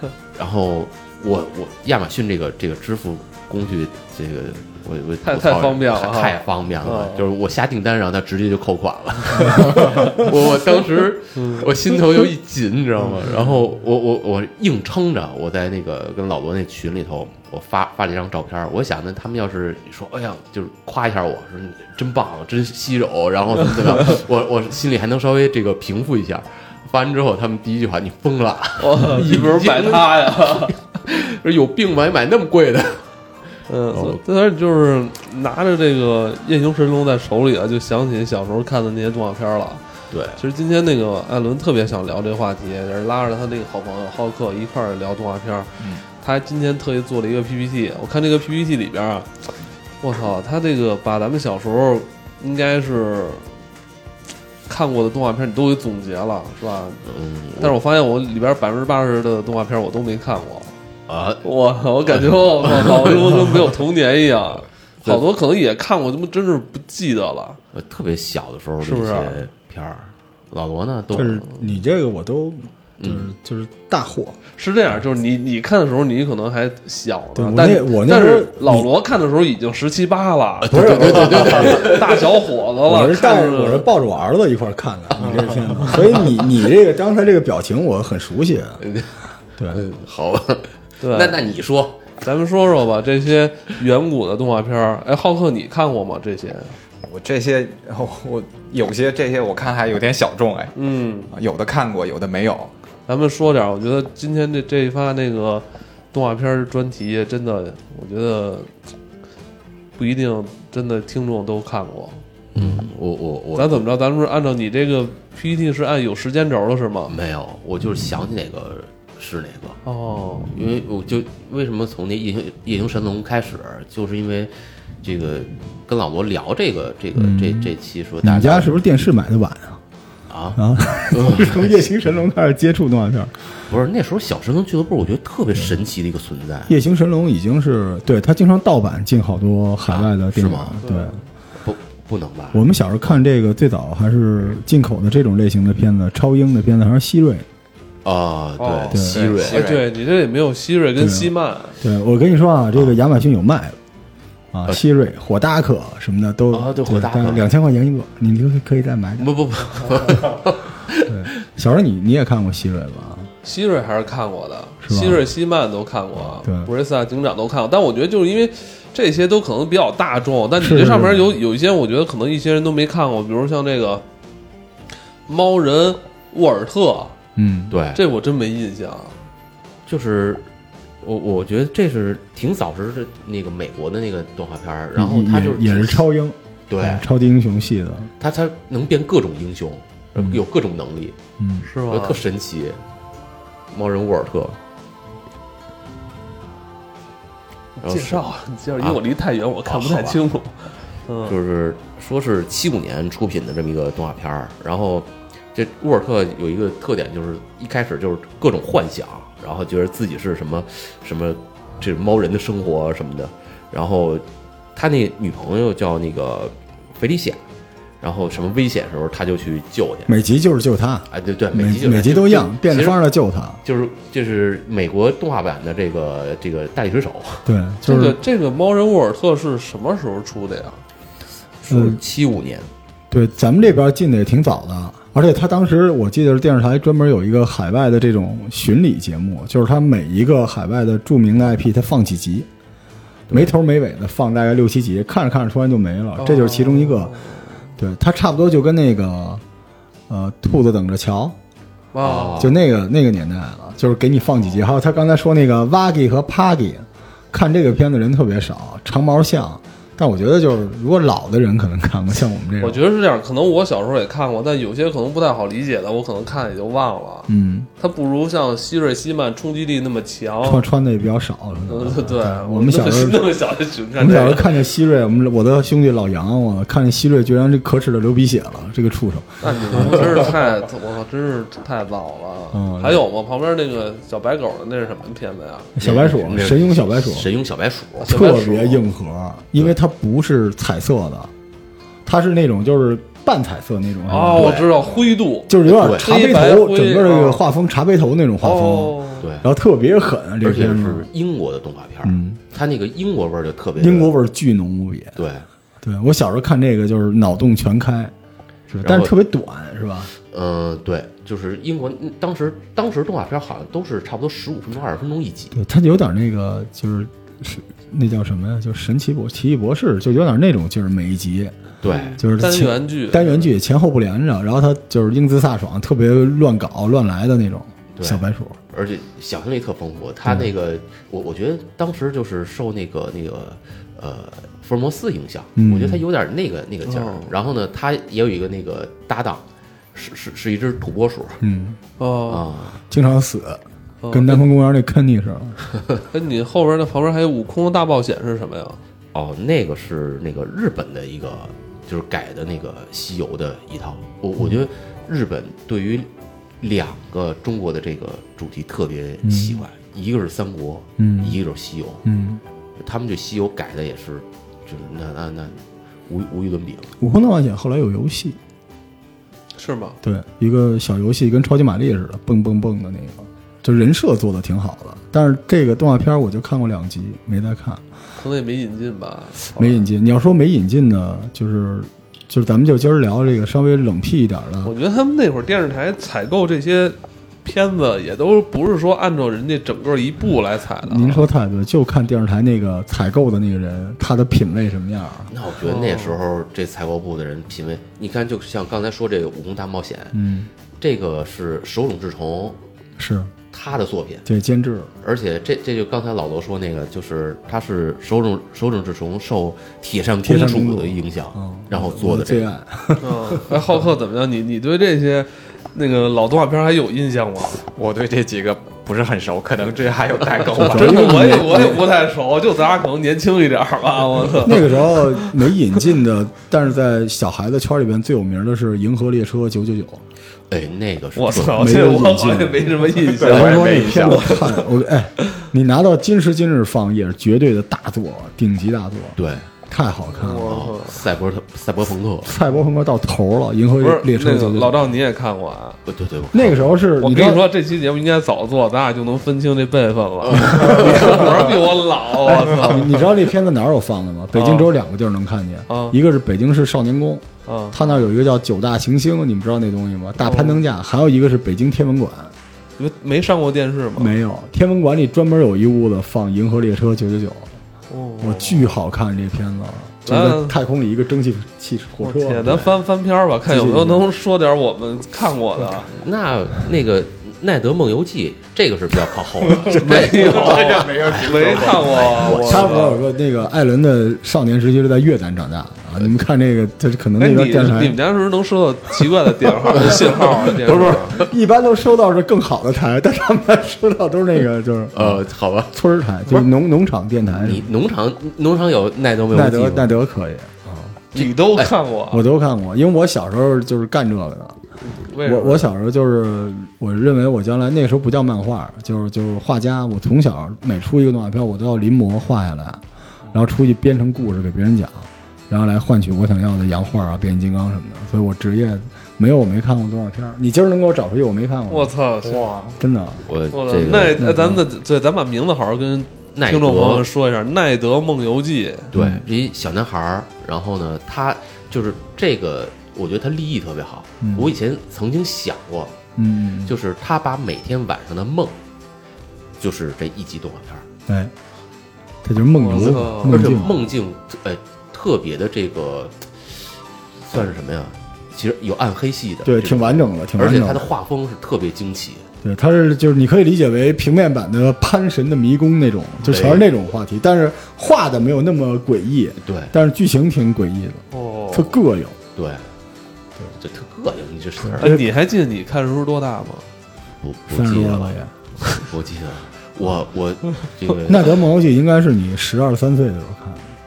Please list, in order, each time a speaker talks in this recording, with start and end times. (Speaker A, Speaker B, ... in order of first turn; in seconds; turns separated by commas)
Speaker A: 0.3-33.0, Speaker B: 5.2-7.3, Speaker B: 9.5-10.2, Speaker B: 11.3-11.7, Speaker B: 28.8-30.8, Speaker B: 33.7-39.8, Speaker A: 33.9-34.2, Speaker A: 40.1-40.4, Speaker B: 40.4-49.5, Speaker B: 50.0-53.5, Speaker B: 54.7-57.0, Speaker A: 57.1-57.8, Speaker B: 57.6-60.7, Speaker A: 61.1-61.4, Speaker B: 61.4-67.6, Speaker A: 62.2-63.8, Speaker A: 67.7-71.5, Speaker B: 68.8-69.5, Speaker C: 71.1-74.4, Speaker A: 73.0-73.3, Speaker B: 74.6-83.9, Speaker C: 77.3-78.9, Speaker A: 80.6-82.2, Speaker C: 80.7-82.0, Speaker C: 82.9-88.8, Speaker A: 85.2-85.6, Speaker A: 88.8-92.0, Speaker C: 89.6-89.8, Speaker B: 91.0-91.4, Speaker B: 92.2-96.7, Speaker D: 97.0-100.8, Speaker B: 100.8-101.3, Speaker D: 101.3-102.7, Speaker B: 103.1-108.7, Speaker B: 110.0-112.2, Speaker A: 112.5-113.8, Speaker B: 113.6-117.2, Speaker A: 117.1-119.8, Speaker B: 119.8-120.5, Speaker A: 120.5-128.7, Speaker C: 127.2-127.7, Speaker C: 128.2-129.8, Speaker A: 130.3-130.6, Speaker C: 130.6-133.3, Speaker A: 131.1-131.7, Speaker A: 133.7-136.8, Speaker C: 136.7-141.2, Speaker A: 139.9-140.8, Speaker B: 140.8-141.2, Speaker A: 141.6-142.7, Speaker C: 142.5-147.5, Speaker A: 148.1-149.8, Speaker B: 148.6-151.8, Speaker D: 148.9-149.8, Speaker C: 148.9-149.3, Speaker C: 151.0-153.8, Speaker C: 154.5-159.3, Speaker A: 156.5-157.5, Speaker A: 159.2-161.3, Speaker C: 161.1-163.3, Speaker B: 163.4-174.0, Speaker C: 164.8-165.2, Speaker C: 166.4-166.7, Speaker C: 170.6-171.3, Speaker B: 175.3-177.2, Speaker C: 177.4-177.7, Speaker A: 177.7-178.0, Speaker B: 177.9-179.2, Speaker A: 179.9-180.5, Speaker A: 181.0-186.1, Speaker C: 185.0-188.1, Speaker A: 186.7-187.1, Speaker A: 188.2-191.2, Speaker C: 191.4-191.7, Speaker B: 191.7-192.2, Speaker A: 191.8-192.8, Speaker A: 193.7-194.6, Speaker B: 197.8-201.3, Speaker A: 197.8-198.3, Speaker A: 199.7-200.2, Speaker A: 201.3-217.4, Speaker A: 218.0-220.2, Speaker C: 220.1-223.6, Speaker A: 221.1-223.0, Speaker A: 223.6-227.5, Speaker C: 227.5-228.2, Speaker B: 227.8-230.8, Speaker A: 231.6-232.7, Speaker C: 231.7-232.0, Speaker C: 233.1-242.5, Speaker C: 243.3-247.2, Speaker B: 246.2-247.6, Speaker C: 247.8-249.4, Speaker C: 250.1-251.4, Speaker B: 251.9-252.5, Speaker A: 252.0-252.6, Speaker C: 252.4-262.8, Speaker B: 262.6-270.6, Speaker C: 267.3-267.7, Speaker C: 270.4-273.3, Speaker B: 271.7-274.6, Speaker C: 273.9-280.2, Speaker B: 279.4-285.7, Speaker C: 282.5-283.1, Speaker C: 285.8-287.3, Speaker A: 285.8-288.1, Speaker C: 288.0-291.3, Speaker B: 288.0-288.8, Speaker C: 292.1-294.7, Speaker B: 294.1-297.4, Speaker A: 294.3-294.8, Speaker C: 295.5-301.1, Speaker A: 295.7-296.1, Speaker B: 298.4-299.3, Speaker A: 299.2-299.5, Speaker A: 300.4-304.1, Speaker C: 302.0-302.4, Speaker C: 303.8-305.2, Speaker A: 305.2-305.5, Speaker C: 305.8-308.1, Speaker C: 308.7-310.1, Speaker A: 308.8-309.1, Speaker A: 310.3-315.6, Speaker C: 315.5-321.6, Speaker A: 321.8-322.2, Speaker B: 321.9-323.5, Speaker C: 322.2-328.6, Speaker A: 327.9-341.4, Speaker C: 330.2-330.5, Speaker C: 335.6-336.0, Speaker B: 336.9-337.3, Speaker C: 341.4-341.8, Speaker B: 342.0-342.4, Speaker A: 342.3-342.8, Speaker C: 342.9-345.6, Speaker B: 344.0-344.4, Speaker B: 346.1-348.8, Speaker A: 349.1-356.1, Speaker A: 356.6-362.0, Speaker C: 359.2-359.7, Speaker C: 361.0-361.4, Speaker C: 362.1-362.4, Speaker A: 362.8-367.0, Speaker C: 367.0-368.4, Speaker B: 369.6-370.0, Speaker C: 370.0-377.8, Speaker B: 378.2-379.9, Speaker C: 379.5-384.7, Speaker B: 384.6-391.2, Speaker C: 390.8-395.3, Speaker A: 395.3-400.2, Speaker B: 395.6-396.2, Speaker C: 400.1-400.5, Speaker A: 400.8-402.6, Speaker C: 403.0-403.3, Speaker A: 403.5-404.2, Speaker C: 404.2-404.9, Speaker A: 405.0-412.5, Speaker C: 410.2-413.7, Speaker B: 413.0-417.6, Speaker D: 417.7-421.4, Speaker C: 420.6-421.9, Speaker B: 420.6-425.3, Speaker C: 424.4-430.0, Speaker A: 430.5-431.9, Speaker B: 431.2-434.6, Speaker C: 431.5-440.6, Speaker D: 433.1-434.4, Speaker A: 439.2-439.5, Speaker B: 440.2-441.0, Speaker A: 440.3-442.3, Speaker C: 442.2-444.8, Speaker B: 443.8-445.8, Speaker A: 445.9-446.8, Speaker C: 446.3-447.5, Speaker B: 447.0-453.1, Speaker A: 450.2-451.5, Speaker C: 450.8-451.4, Speaker C: 452.2-462.3, Speaker B: 454.3-454.7, Speaker B: 455.7-456.0, Speaker B: 457.5-457.9, Speaker B: 460.2-460.6, Speaker B: 462.8-464.1, Speaker C: 464.0-467.5, Speaker B: 467.9-468.7, Speaker C: 468.2-472.7, Speaker B: 470.1-470.6, Speaker B: 472.0-475.9, Speaker C: 473.5-474.1, Speaker A: 475.9-482.9, Speaker D: 479.7-482.4, Speaker B: 479.8-483.0, Speaker C: 482.3-488.0, Speaker B: 487.2-491.2, Speaker A: 489.8-491.3, Speaker C: 490.5-497.7, Speaker A: 494.9-495.8, Speaker A: 497.3-499.9, Speaker C: 499.3-501.0, Speaker A: 501.1-501.7, Speaker B: 501.1-502.2, Speaker C: 502.1-504.6, Speaker B: 504.8-505.7, Speaker C: 505.2-521.9, Speaker B: 521.7-522.5, Speaker D: 522.2-522.8, Speaker C: 522.8-523.3, Speaker A: 523.3-524.2, Speaker B: 523.5-528.9, Speaker C: 523.9-524.6, Speaker A: 526.4-527.1, Speaker A: 528.9-536.0, Speaker C: 528.9-529.2, Speaker C: 534.2-534.5, Speaker C: 536.2-536.7, Speaker A: 536.6-538.6, Speaker A: 539.6-540.9, Speaker C: 541.1-541.3, Speaker C: 542.2-543.8, Speaker B: 542.6-543.6, Speaker A: 542.7-552.3, Speaker C: 549.4-550.9, Speaker C: 552.4-562.2, Speaker A: 556.2-556.7, Speaker A: 559.4-559.7, Speaker B: 561.1-561.7, Speaker A: 562.4-562.7, Speaker A: 563.5-565.0, Speaker C: 564.6-565.0, Speaker B: 564.8-566.7, Speaker A: 567.2-571.4, Speaker C: 567.5-568.3, Speaker C: 571.1-573.7